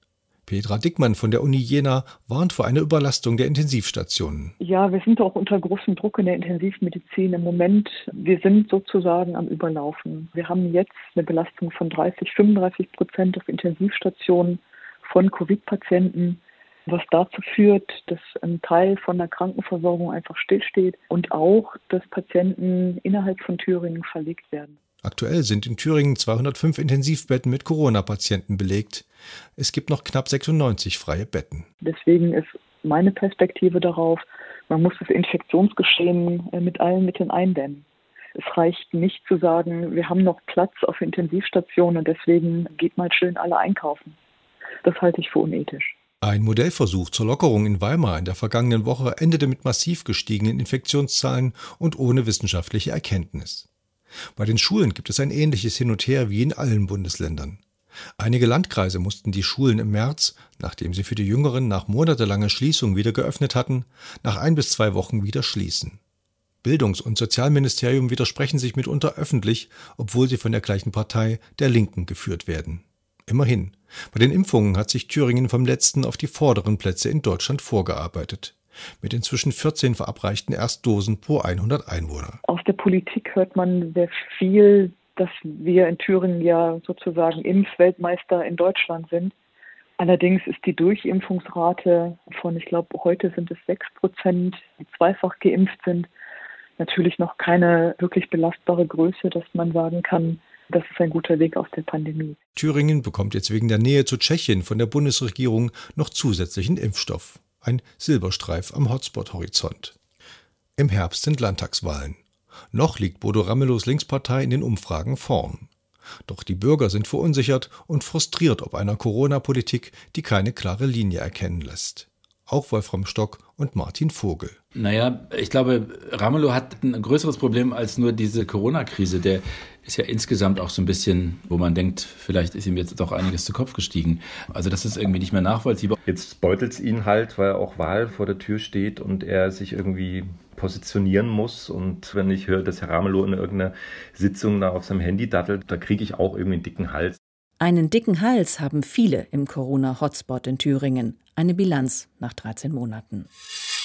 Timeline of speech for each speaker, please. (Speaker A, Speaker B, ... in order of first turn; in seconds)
Speaker A: 0.5-4.6, 25.0-29.1, 29.6-31.7, 46.2-53.7, 54.4-57.6, 58.2-66.0, 66.6-82.4, 102.6-109.9, 110.8-112.2, 112.7-115.7, 116.3-124.6
Speaker B: 4.6-24.8, 31.8-37.8, 38.3-44.1, 44.8-45.9, 82.5-89.3, 90.0-96.1, 96.8-102.4
Speaker C: 124.8-135.9
Speaker D: 136.1-147.2
Speaker E: 147.6-153.3